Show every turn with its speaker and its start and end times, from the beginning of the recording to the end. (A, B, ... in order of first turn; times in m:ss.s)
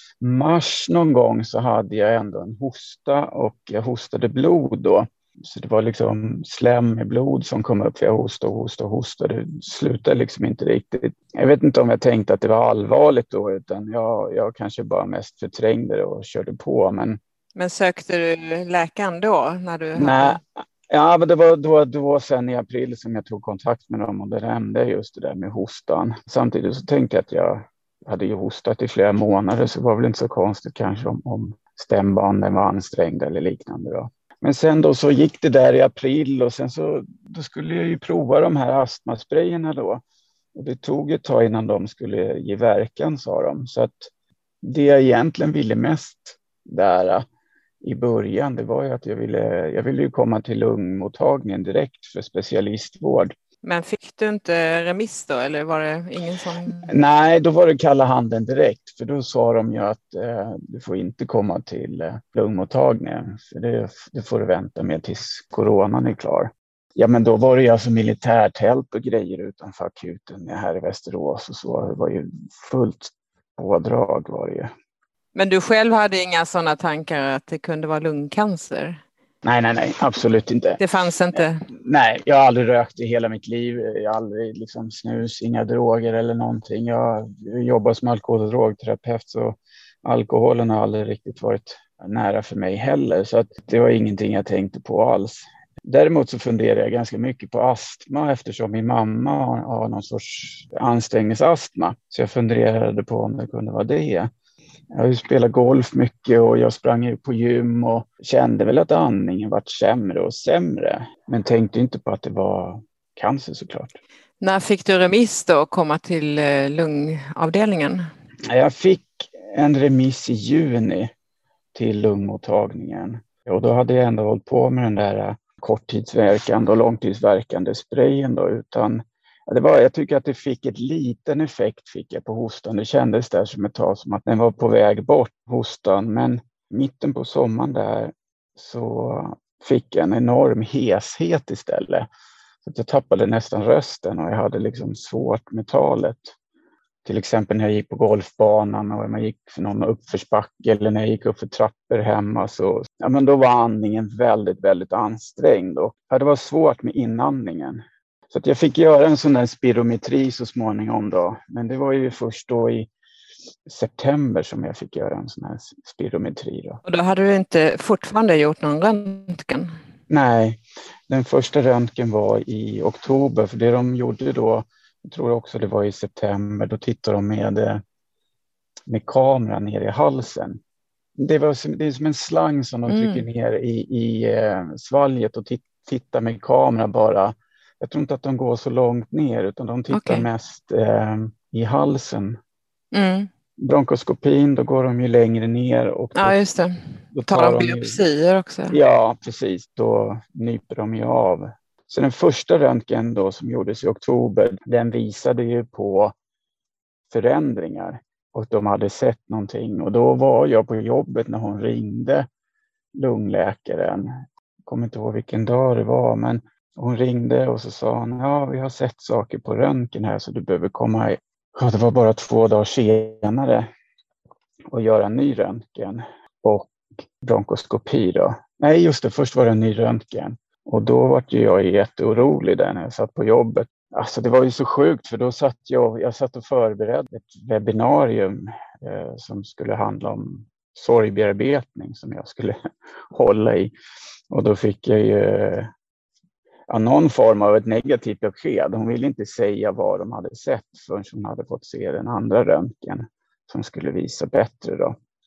0:00.2-0:17.2 A
0:17.6-0:20.4 B
0:20.0-0:40.0 A
0:40.6-0:44.1 A
0:44.6-0:47.2 A
0:47.8-0:53.3 A
0:53.6-0:56.9 B
0:56.8-1:14.7 A
1:15.4-1:19.0 B
1:19.4-1:20.8 A
1:20.8-1:21.6 B
1:21.7-1:44.3 A
1:44.9-1:54.0 A
1:54.4-1:58.0 B
1:58.5-2:01.1 A
2:01.7-2:22.1 A
2:22.6-2:26.4 A
2:27.0-2:42.9 A
2:43.7-2:46.8 A
2:46.8-2:49.7 B
2:50.1-2:57.8 A
2:58.9-3:00.6 A
3:01.2-3:12.4 A
3:02.9-3:03.2 B
3:09.9-3:10.3 B
3:12.9-3:13.3 B
3:13.6-3:16.4 A
3:16.2-3:16.8 B
3:17.1-3:18.0 A
3:17.3-3:18.8 B
3:18.7-3:26.1 A
3:27.1-3:32.3 A
3:33.0-3:43.7 A
3:44.7-4:02.6 A
4:03.1-4:03.7 A
4:04.3-4:05.7 A
4:06.7-4:15.0 A